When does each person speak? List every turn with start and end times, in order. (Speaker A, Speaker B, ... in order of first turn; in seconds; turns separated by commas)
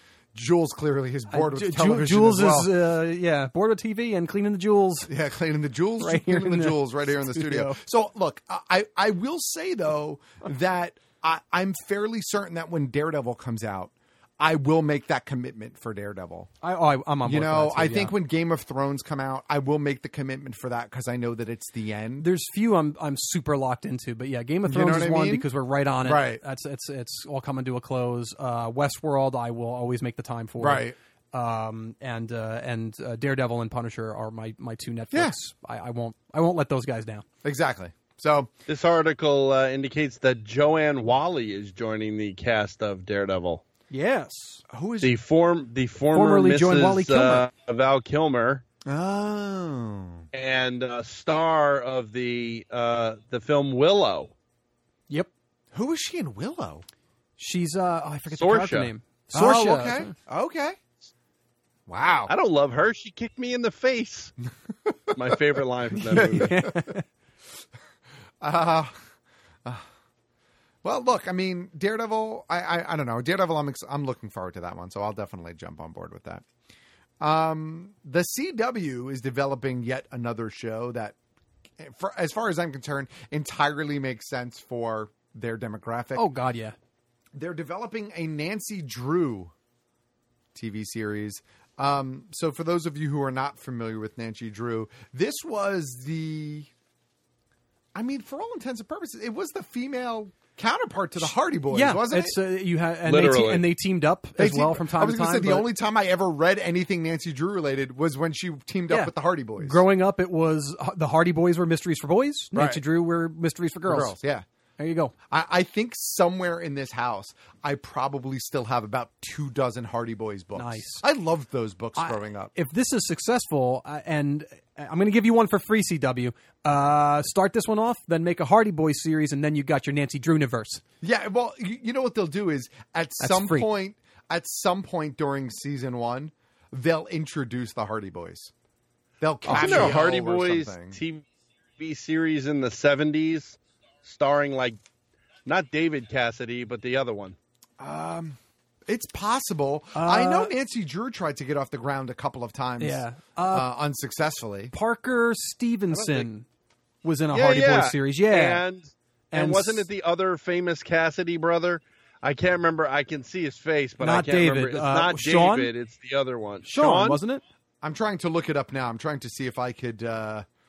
Speaker A: 0.3-2.7, Speaker B: 1.3-5.1, Speaker A: 5.1-16.5, Speaker B: 6.0-7.8, Speaker B: 16.6-18.1, Speaker A: 17.2-22.3, Speaker B: 22.2-37.2, Speaker A: 24.6-25.5, Speaker A: 26.0-26.4, Speaker A: 30.6-30.9, Speaker A: 37.4-38.5, Speaker C: 38.7-43.6, Speaker B: 43.9-44.6, Speaker A: 44.7-45.1, Speaker C: 45.0-48.6, Speaker B: 46.1-47.5, Speaker A: 48.8-50.2, Speaker C: 50.3-54.3, Speaker A: 55.7-56.8, Speaker B: 57.4-60.1, Speaker C: 58.3-58.9, Speaker A: 59.3-60.8, Speaker A: 61.9-62.3, Speaker C: 62.3-64.3, Speaker A: 64.8-65.4, Speaker C: 65.1-66.6, Speaker A: 66.0-66.9, Speaker B: 66.1-67.0, Speaker A: 68.4-69.0, Speaker A: 70.8-76.4, Speaker A: 77.2-81.2, Speaker A: 81.8-86.3, Speaker B: 86.1-86.8, Speaker A: 87.3-89.5, Speaker A: 90.5-96.7, Speaker A: 97.9-102.4, Speaker B: 101.2-105.7, Speaker C: 103.0-103.7, Speaker A: 104.4-109.8, Speaker B: 108.9-114.2, Speaker A: 112.5-112.8, Speaker A: 113.9-114.4, Speaker B: 114.8-115.1, Speaker A: 115.3-122.5, Speaker B: 120.5-121.0, Speaker B: 122.0-130.8, Speaker A: 131.0-138.5, Speaker B: 133.2-133.7, Speaker A: 139.2-141.0, Speaker B: 139.4-140.0, Speaker C: 139.5-141.2, Speaker C: 141.8-144.8, Speaker C: 145.4-147.4, Speaker A: 147.8-154.7, Speaker B: 149.9-150.5, Speaker B: 152.8-153.7, Speaker B: 154.7-156.4, Speaker C: 155.9-156.3, Speaker B: 157.0-158.6, Speaker C: 157.3-167.2, Speaker B: 159.3-159.9, Speaker B: 164.0-165.7, Speaker B: 166.6-167.4, Speaker A: 167.8-170.4